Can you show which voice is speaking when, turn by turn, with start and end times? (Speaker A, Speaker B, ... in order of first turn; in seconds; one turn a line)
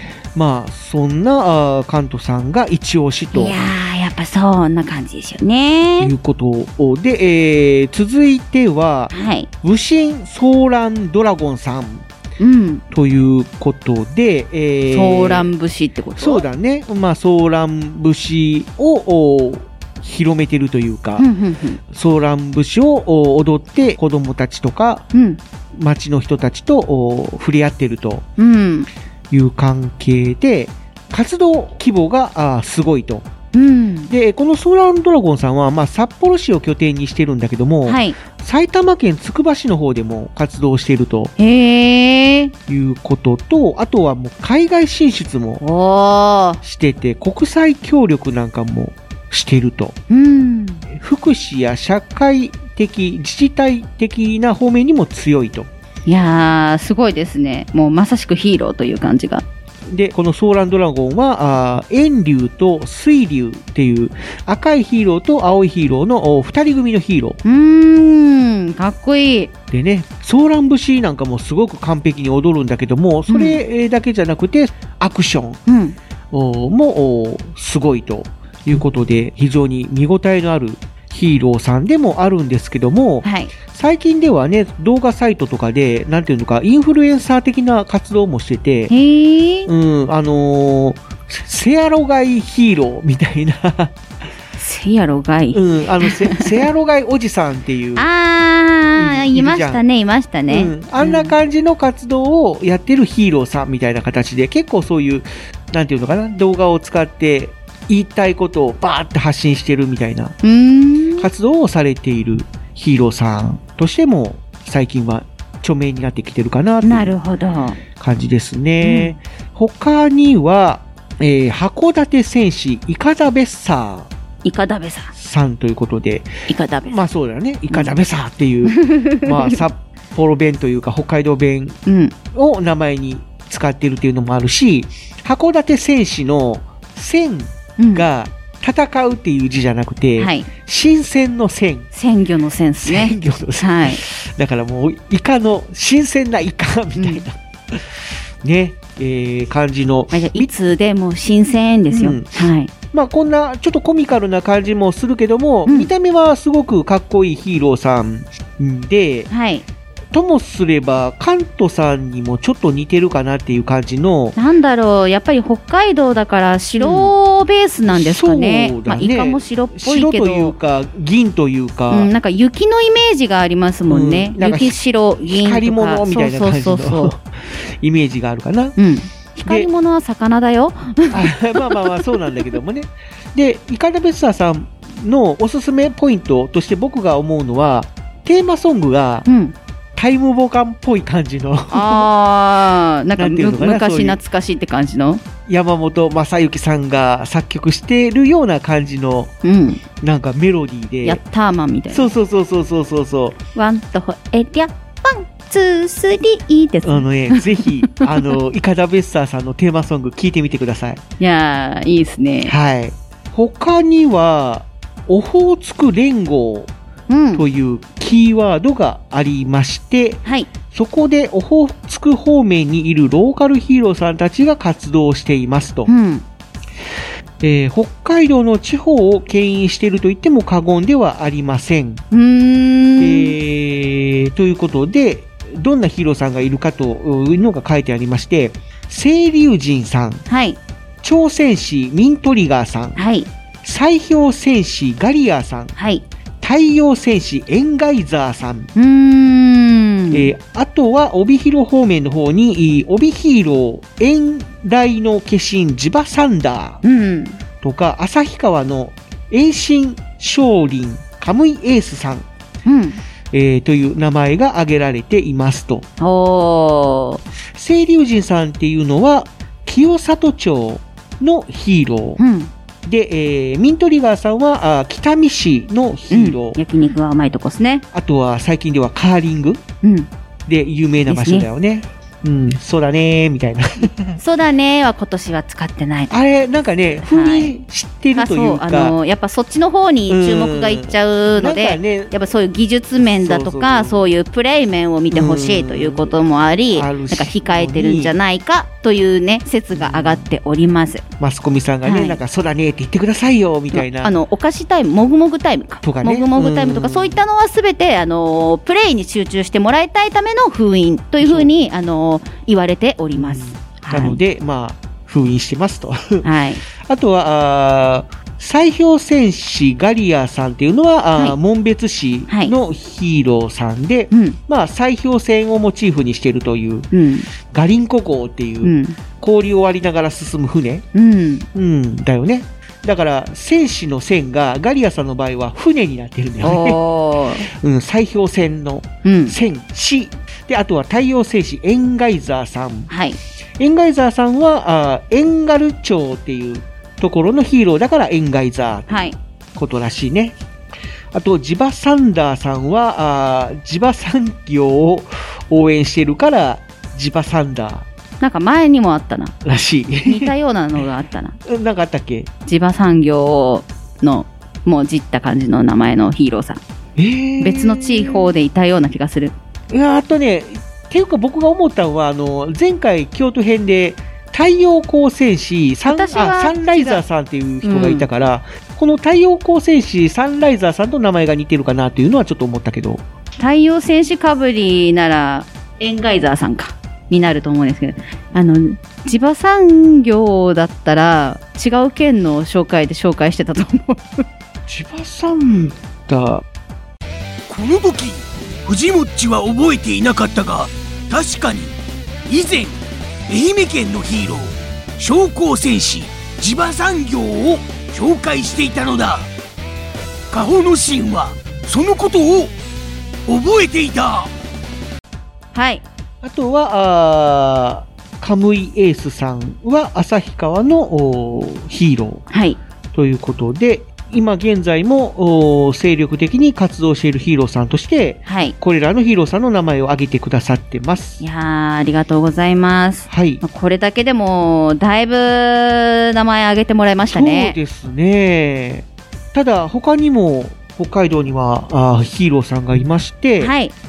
Speaker A: 0.3-3.7
Speaker B: 3.3-6.1
Speaker A: 6.0-12.0
Speaker B: 9.1-9.5
Speaker B: 12.4-12.8
Speaker A: 12.9-15.5
Speaker B: 14.9-16.4
Speaker A: 16.2-21.2
Speaker B: 21.2-21.8
Speaker A: 21.9-25.1
Speaker B: 25.1-25.4
Speaker A: 25.7-28.2
Speaker B: 28.4-28.9
Speaker A: 29.3-33.3
Speaker B: 33.5-34.1
Speaker A: 34.1-41.3
Speaker B: 37.9-38.2
Speaker B: 41.4-42.5
Speaker A: 42.7-45.6
Speaker B: 45.6-46.6
Speaker A: 46.6-50.0
Speaker B: 50.1-50.9
Speaker A: 50.9-55.7
Speaker B: 56.0-59.4
Speaker A: 59.9-67.4
Speaker B: 67.4-69.5
Speaker A: 69.7-75.6
Speaker B: 73.3-73.6
Speaker B: 75.7-76.0
Speaker A: 76.3-88.9
Speaker B: 83.2-83.5
Speaker B: 88.9-89.7
Speaker A: 89.7-94.0
Speaker B: 94.5-96.5
Speaker A: 95.5-98.1
Speaker B: 98.0-101.3
Speaker A: 98.9-99.8
Speaker A: 100.5-110.3
Speaker B: 110.4-111.3
Speaker A: 111.2-117.1
Speaker B: 116.8-117.8
Speaker A: 118.0-124.1
Speaker B: 118.8-119.2
Speaker B: 124.4-125.1
Speaker A: 125.1-131.8
Speaker B: 126.5-127.0
Speaker B: 127.7-127.9
Speaker B: 128.7-129.6
Speaker B: 131.8-132.1
Speaker A: 132.3-141.9
Speaker B: 137.8-138.1
Speaker B: 140.2-140.5
Speaker B: 141.9-144.0
Speaker A: 142.8-150.5
Speaker B: 146.9-147.2
Speaker B: 150.1-152.7
Speaker A: 151.9-152.3
Speaker A: 152.9-159.3
Speaker B: 159.3-159.6
Speaker A: 160.1-164.3
Speaker B: 164.3-170.6
Speaker A: 166.8-167.1
Speaker A: 167.9-172.1
Speaker B: 171.9-177.1
Speaker A: 173.9-178.8
Speaker B: 178.8-182.0
Speaker A: 181.1-189.3
Speaker B: 189.3-189.5
Speaker A: 189.9-192.1
Speaker B: 191.7-195.2
Speaker A: 193.2-194.2
Speaker A: 195.4-199.3
Speaker B: 199.4-199.8
Speaker A: 200.0-201.2
Speaker B: 201.0-202.1
Speaker A: 201.9-203.4
Speaker B: 203.5-207.9
Speaker A: 206.8-211.0
Speaker B: 211.2-212.5
Speaker A: 212.4-216.7
Speaker B: 217.1-217.4
Speaker A: 217.3-225.9
Speaker B: 225.9-226.2
Speaker A: 227.4-232.0
Speaker B: 232.1-233.3
Speaker A: 233.0-240.2
Speaker B: 240.3-240.6
Speaker A: 241.0-243.0
Speaker B: 242.9-243.3
Speaker A: 243.6-245.7
Speaker B: 245.8-246.0
Speaker A: 246.4-248.7
Speaker B: 248.7-250.3
Speaker A: 250.1-256.8
Speaker B: 256.8-257.4
Speaker A: 257.6-262.3
Speaker B: 262.6-263.0
Speaker A: 263.3-265.9
Speaker B: 266.0-267.2
Speaker A: 267.5-272.2
Speaker B: 272.2-272.5
Speaker A: 272.8-276.6
Speaker B: 276.1-277.8
Speaker A: 277.9-279.6
Speaker B: 279.8-280.1
Speaker A: 280.5-284.2
Speaker B: 281.1-281.5
Speaker B: 284.1-286.1
Speaker A: 286.1-288.9
Speaker B: 287.0-287.5
Speaker B: 288.1-301.0
Speaker A: 290.1-292.1
Speaker A: 293.1-294.0
Speaker A: 295.1-296.1
Speaker A: 296.7-298.1
Speaker A: 299.7-300.3
Speaker A: 301.2-304.1
Speaker B: 301.8-302.2
Speaker B: 303.7-314.2
Speaker A: 305.8-307.2
Speaker A: 311.2-311.5
Speaker A: 313.1-316.2
Speaker B: 316.2-316.6
Speaker A: 316.8-326.9
Speaker B: 322.3-322.5
Speaker B: 324.1-324.4
Speaker B: 326.9-327.3
Speaker A: 327.4-330.8
Speaker B: 328.6-329.0
Speaker B: 330.9-331.4
Speaker A: 331.5-336.8
Speaker B: 336.4-337.5
Speaker A: 337.5-342.9
Speaker B: 339.0-339.4
Speaker B: 342.9-343.2
Speaker A: 343.6-350.3
Speaker B: 348.9-349.1
Speaker A: 351.1-357.9
Speaker B: 358.2-359.3
Speaker A: 359.4-360.3
Speaker B: 360.1-361.4
Speaker A: 361.4-362.3
Speaker B: 362.4-366.6
Speaker A: 367.0-368.3
Speaker B: 367.4-369.3
Speaker A: 369.7-383.0
Speaker B: 375.9-377.0
Speaker B: 377.6-378.1
Speaker B: 383.4-394.2
Speaker A: 394.7-396.4
Speaker C: 397.5-401.7
Speaker C: 402.3-409.3
Speaker C: 410.3-412.5
Speaker C: 413.3-414.3
Speaker B: 415.5-415.8
Speaker A: 416.2-422.2
Speaker B: 422.3-422.6
Speaker A: 422.9-431.2
Speaker B: 428.2-428.5
Speaker B: 431.2-437.6
Speaker A: 433.1-433.4
Speaker A: 437.1-443.5
Speaker B: 443.4-443.7